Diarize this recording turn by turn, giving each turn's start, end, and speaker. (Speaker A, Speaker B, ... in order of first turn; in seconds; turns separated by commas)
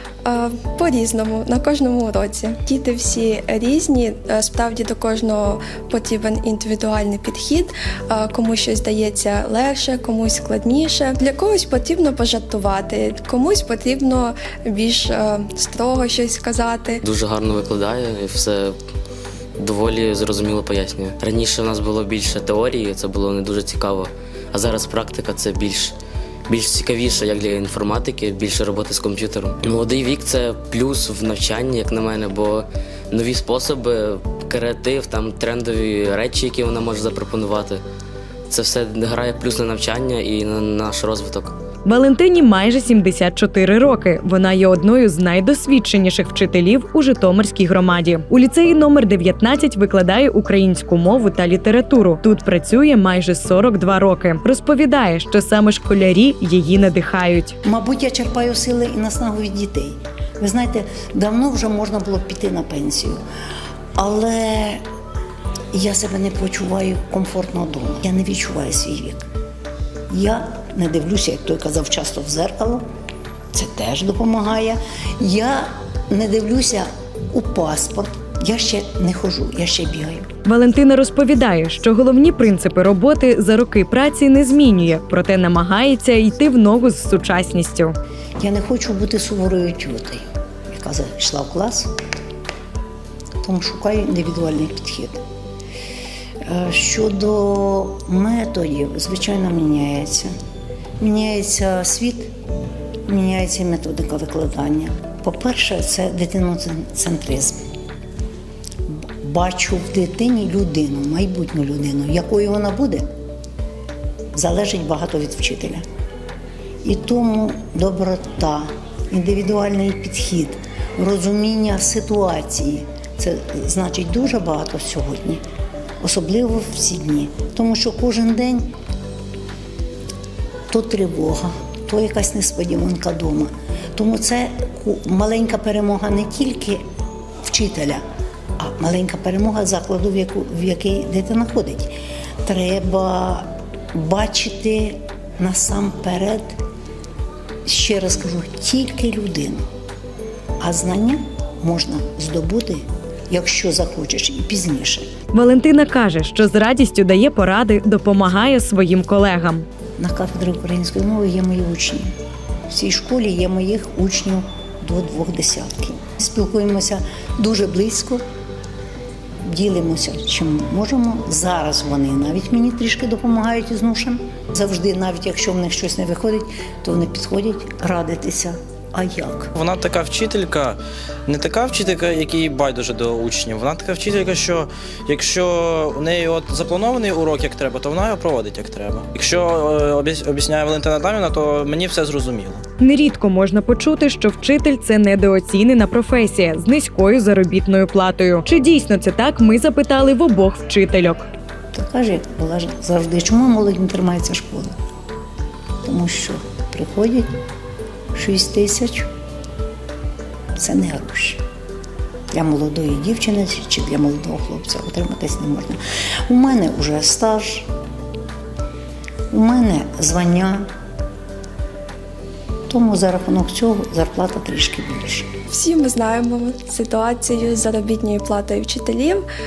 Speaker A: 0.2-17.0, Speaker B: 17.0-18.8, Speaker B: 19.6-25.9, Speaker B: 26.5-37.8, Speaker B: 38.5-41.5, Speaker C: 41.9-57.6, Speaker D: 57.6-63.2, Speaker D: 64.0-64.8, Speaker D: 65.7-69.3, Speaker D: 70.1-72.8, Speaker D: 73.5-80.3, Speaker C: 80.5-88.0, Speaker D: 88.4-91.9, Speaker D: 93.4-95.2, Speaker D: 96.4-100.3, Speaker D: 101.0-102.3, Speaker D: 103.1-107.6, Speaker D: 108.9-113.1, Speaker D: 114.3-115.8, Speaker D: 116.8-125.4, Speaker D: 126.0-128.7, Speaker D: 130.7-136.8, Speaker D: 137.4-138.0, Speaker D: 138.6-146.6, Speaker D: 147.7-149.6, Speaker D: 150.6-155.1, Speaker C: 155.3-159.7, Speaker D: 160.0-162.1, Speaker D: 162.7-168.2, Speaker D: 169.4-179.5, Speaker E: 179.6-192.6, Speaker C: 192.8-201.3, Speaker D: 201.7-204.7, Speaker D: 205.9-207.3, Speaker D: 208.2-209.1, Speaker D: 210.6-211.4, Speaker D: 212.3-217.7, Speaker D: 219.3-220.7, Speaker D: 222.7-225.3, Speaker A: 225.5-229.2